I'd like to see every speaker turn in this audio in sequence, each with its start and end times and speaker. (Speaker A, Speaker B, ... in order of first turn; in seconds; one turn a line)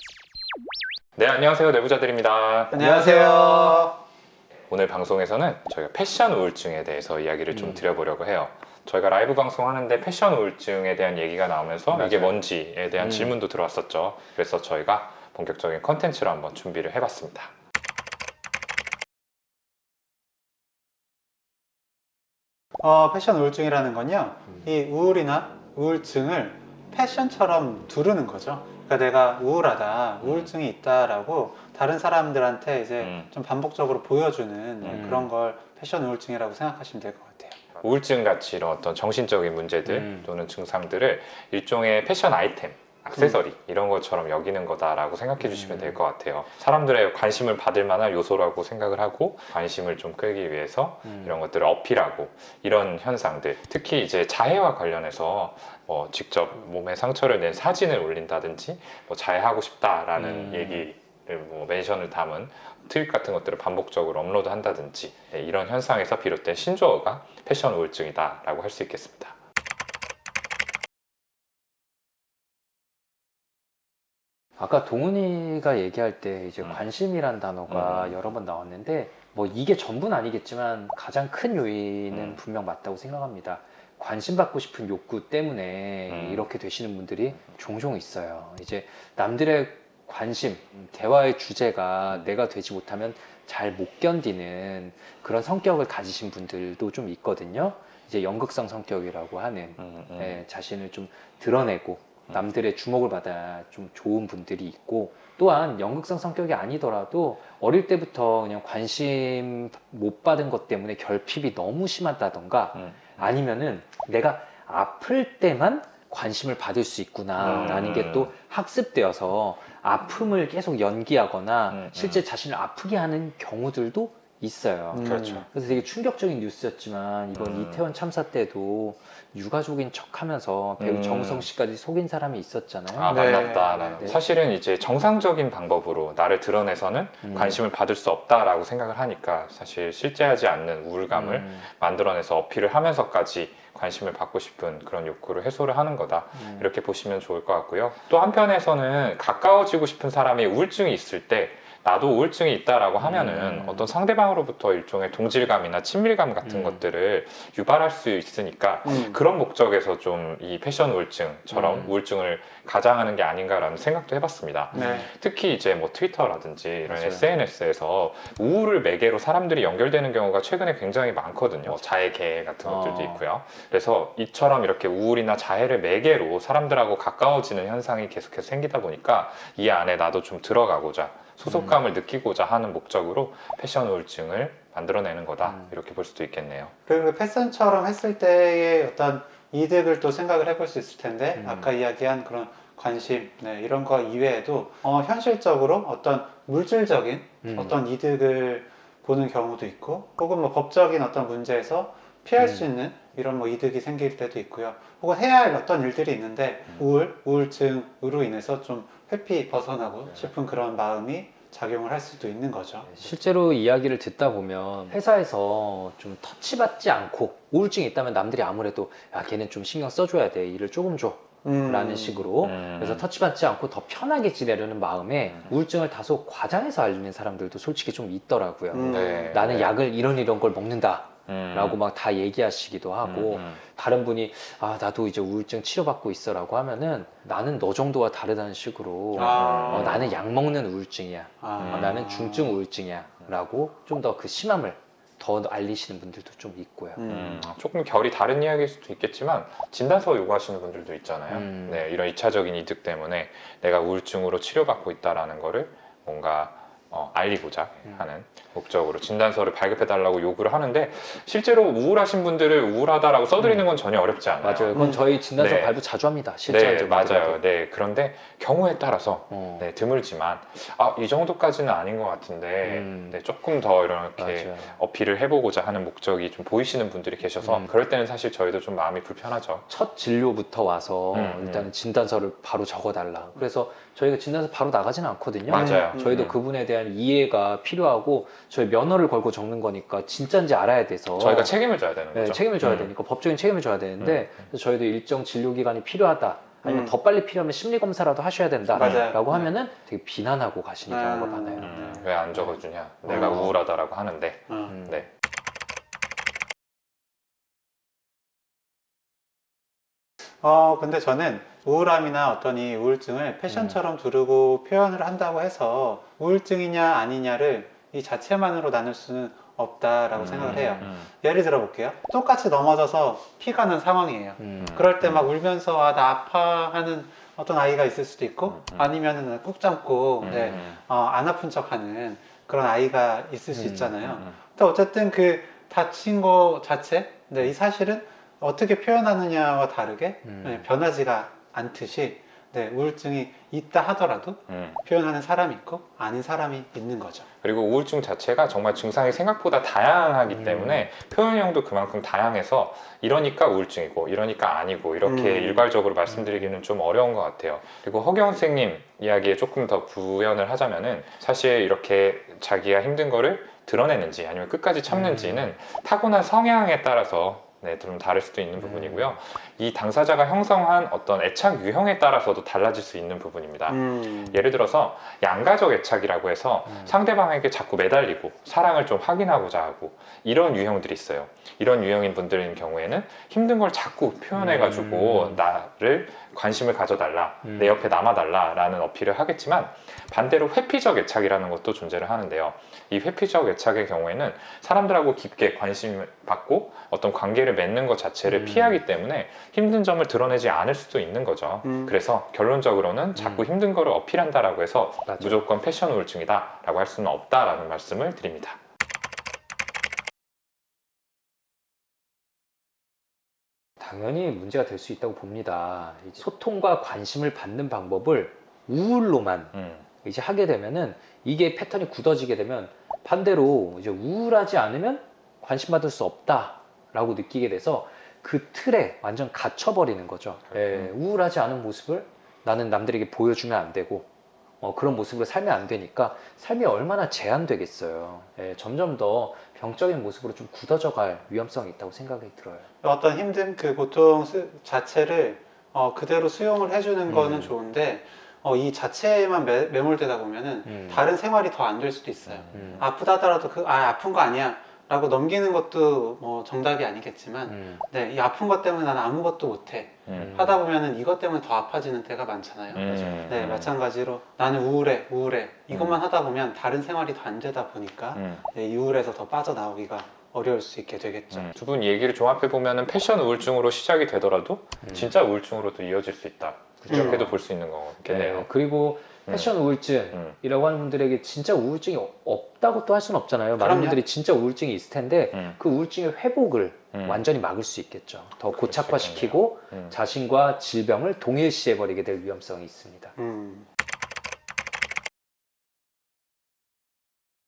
Speaker A: 1.2-2.8
Speaker B: 2.7-4.0
Speaker C: 2.8-3.9
Speaker A: 4.7-17.5
Speaker C: 7.5-7.8
Speaker C: 11.9-12.4
Speaker C: 13.0-13.4
Speaker B: 22.8-37.6
Speaker A: 30.2-30.5
Speaker A: 33.0-33.3
Speaker A: 34.8-35.2
Speaker C: 34.9-35.3
Speaker A: 37.8-69.4
Speaker C: 39.9-40.3
Speaker B: 43.2-43.4
Speaker C: 45.4-46.0
Speaker C: 51.1-51.4
Speaker C: 60.2-60.9
Speaker C: 74.6-134.2
Speaker A: 77.7-78.2
Speaker A: 82.1-82.4
Speaker A: 86.1-86.5
Speaker A: 99.8-100.4
Speaker A: 112.7-113.3
Speaker A: 117.4-118.3
Speaker B: 117.4-117.7
Speaker A: 121.7-122.2
Speaker B: 124.9-125.5
Speaker A: 125.0-125.5
Speaker A: 127.3-127.8
Speaker A: 130.8-131.5
Speaker A: 132.9-186.7
Speaker B: 133.1-134.1
Speaker C: 137.2-137.6
Speaker C: 141.1-141.7
Speaker C: 146.3-146.7
Speaker C: 153.0-153.9
Speaker C: 156.4-156.8
Speaker B: 158.8-159.2
Speaker C: 161.5-162.0
Speaker C: 164.7-165.1
Speaker B: 164.7-165.1
Speaker C: 166.9-167.3
Speaker C: 172.6-173.2
Speaker C: 181.4-181.8
Speaker C: 185.4-185.7
Speaker B: 186.9-212.9
Speaker C: 191.4-191.7
Speaker C: 197.4-197.8
Speaker C: 202.4-202.7
Speaker C: 212.9-247.0
Speaker B: 221.4-222.3
Speaker A: 222.4-223.1
Speaker A: 225.3-225.6
Speaker B: 228.7-229.3
Speaker A: 228.9-229.8
Speaker A: 231.3-231.8
Speaker A: 233.0-233.6
Speaker B: 239.1-240.1
Speaker A: 239.2-240.2
Speaker B: 241.4-242.6
Speaker A: 241.6-242.0
Speaker B: 247.0-247.5
Speaker A: 247.1-265.8
Speaker C: 251.3-251.8
Speaker C: 263.4-263.7
Speaker C: 264.4-267.4
Speaker B: 264.7-265.1
Speaker A: 266.4-279.7
Speaker C: 269.3-269.7
Speaker C: 272.6-273.2
Speaker C: 274.2-274.7
Speaker C: 277.4-277.7
Speaker C: 279.7-291.6
Speaker A: 281.1-281.7
Speaker A: 285.5-286.4
Speaker B: 285.5-286.2
Speaker A: 291.1-292.9
Speaker C: 292.1-301.8
Speaker A: 294.0-294.3
Speaker B: 296.6-296.9
Speaker B: 298.7-299.5
Speaker A: 298.8-299.1
Speaker B: 300.9-302.1
Speaker A: 301.6-305.1
Speaker C: 303.1-303.6
Speaker B: 303.1-303.5
Speaker B: 304.5-304.8
Speaker C: 304.7-305.0
Speaker B: 310.4-347.3
Speaker C: 313.5-313.8
Speaker A: 320.1-321.1
Speaker C: 324.4-324.8
Speaker A: 324.6-325.3
Speaker A: 328.5-328.9
Speaker A: 330.2-330.8
Speaker C: 330.3-330.6
Speaker C: 333.5-334.0
Speaker A: 334.0-334.4
Speaker C: 340.2-340.6
Speaker A: 344.5-344.8
Speaker A: 347.4-408.6
Speaker C: 350.3-350.9
Speaker B: 355.0-355.7
Speaker C: 356.1-356.5
Speaker C: 364.9-365.5
Speaker C: 368.6-369.2
Speaker B: 373.7-374.4
Speaker C: 376.6-377.0
Speaker C: 384.3-385.4
Speaker C: 387.4-387.8
Speaker C: 398.3-398.8
Speaker B: 401.6-402.0
Speaker C: 403.2-403.5
Speaker C: 405.1-405.4
Speaker C: 413.8-434.1
Speaker A: 419.5-419.9
Speaker A: 430.5-430.9
Speaker C: 434.6-442.7
Speaker B: 442.8-471.5
Speaker C: 447.1-447.5
Speaker C: 450.6-451.1
Speaker A: 452.3-452.8
Speaker C: 452.5-452.9
Speaker C: 457.5-457.8
Speaker A: 460.1-460.4
Speaker C: 460.1-460.6
Speaker A: 462.7-463.7
Speaker C: 462.8-463.4
Speaker A: 465.7-466.0
Speaker A: 468.1-468.4
Speaker A: 471.3-478.5
Speaker C: 474.8-475.1
Speaker C: 476.8-477.4
Speaker B: 476.9-477.3
Speaker C: 478.1-493.1
Speaker A: 479.3-479.6
Speaker A: 480.1-480.4
Speaker B: 483.6-484.0
Speaker A: 485.3-485.6
Speaker A: 486.9-487.3
Speaker A: 488.5-490.0
Speaker B: 493.2-493.7